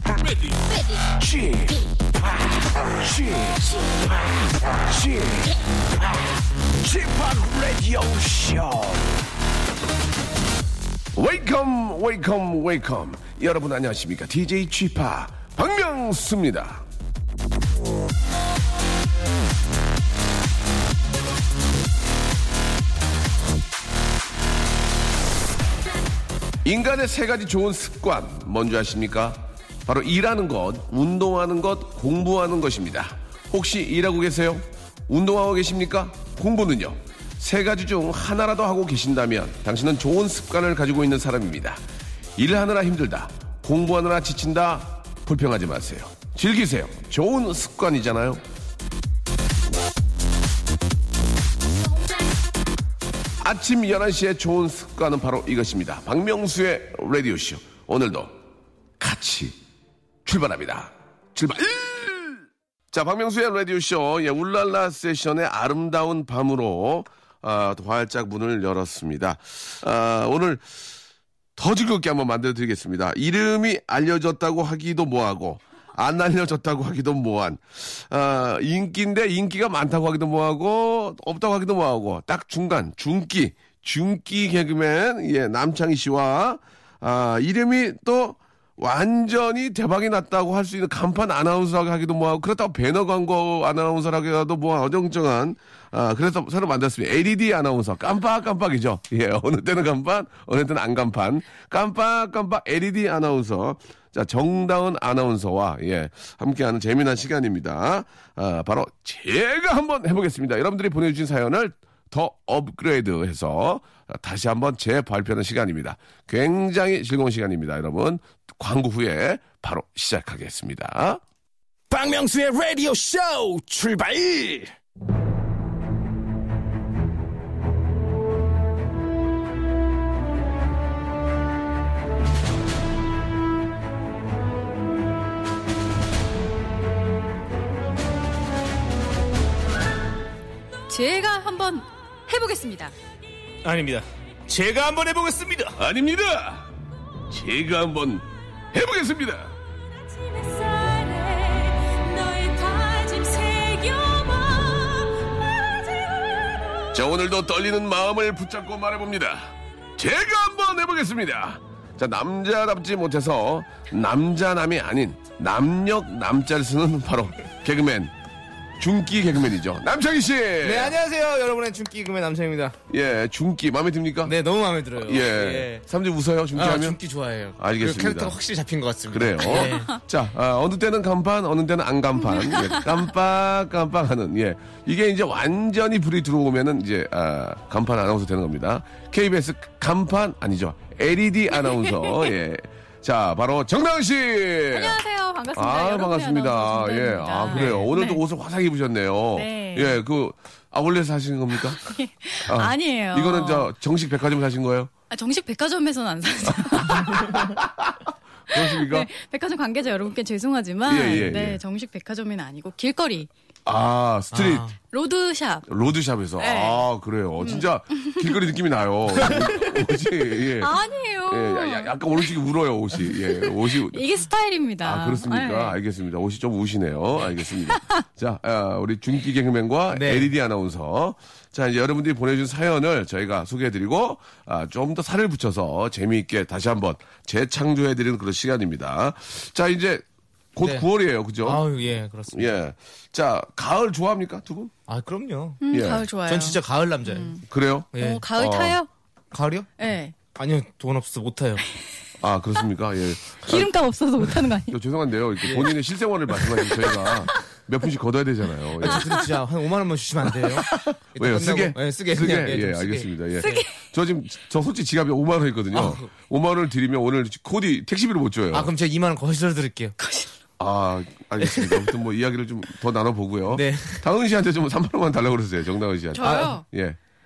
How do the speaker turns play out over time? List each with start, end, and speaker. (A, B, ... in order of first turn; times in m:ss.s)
0:00.2-0:09.2 A
0:11.1-0:16.8 A
0:26.6-0:41.8 A
0:42.4-0:48.4 A
0:53.4-0:58.4 A
0:59.0-0:59.6 A
1:00.2-1:10.7 A
1:11.6-2:01.2 A
2:01.9-2:04.7 B
2:20.9-2:22.9 C
2:23.6-2:25.8 D
2:25.8-2:26.7 A
2:27.3-2:29.5 A
2:30.0-2:36.9 C
2:36.9-2:48.1 A
2:48.8-2:50.9 A
2:50.6-2:52.8 D
2:52.9-2:54.3 A
2:54.2-2:55.8 D
2:55.0-2:57.0 A
2:56.5-3:00.0 D
2:57.6-2:58.4 A
2:59.1-3:15.0 A
2:59.5-2:59.8 C
3:02.3-3:03.0 C
3:14.7-3:18.2 C
3:15.5-3:21.8 A
3:17.5-3:17.9 D
3:19.3-3:20.0 C
3:21.7-3:23.7 C
3:22.4-3:24.9 A
3:25.1-3:27.6 C
3:26.6-3:28.0 A
3:28.5-3:29.1 A
3:28.5-3:33.3 C
3:30.8-3:31.6 A
3:33.7-3:34.7 A
3:34.3-3:34.8 D
3:34.9-3:35.7 C
3:35.7-3:44.0 A
3:36.4-3:36.8 C
3:37.4-3:38.4 C
3:40.6-3:42.3 C
3:43.1-3:45.8 C
3:44.8-4:00.0 A
3:49.9-3:50.3 D
4:00.6-4:01.6 A
4:00.6-4:00.9 D
4:01.4-4:02.5 D
4:02.3-4:04.7 A
4:04.9-4:05.6 D
4:05.6-4:07.4 C
4:05.7-4:06.1 A
4:06.2-4:07.3 D
4:07.5-4:08.8 A
4:07.9-4:08.2 D
4:08.0-4:08.9 C
4:09.3-4:09.7 D
4:09.8-4:10.1 C
4:10.3-4:11.6 D
4:12.2-4:13.7 A
4:13.3-4:14.8 C
4:14.7-4:19.3 A
4:15.4-4:15.7 D
4:18.8-4:23.1 D
4:18.8-4:19.3 C
4:20.6-4:28.7 A
4:23.4-4:23.8 C
4:25.7-4:26.1 D
4:28.5-4:30.0 D
4:30.0-4:30.3 C
4:30.6-4:37.0 A
4:31.4-4:31.9 D
4:33.5-4:34.0 D
4:36.1-4:36.6 C
4:36.2-4:36.5 D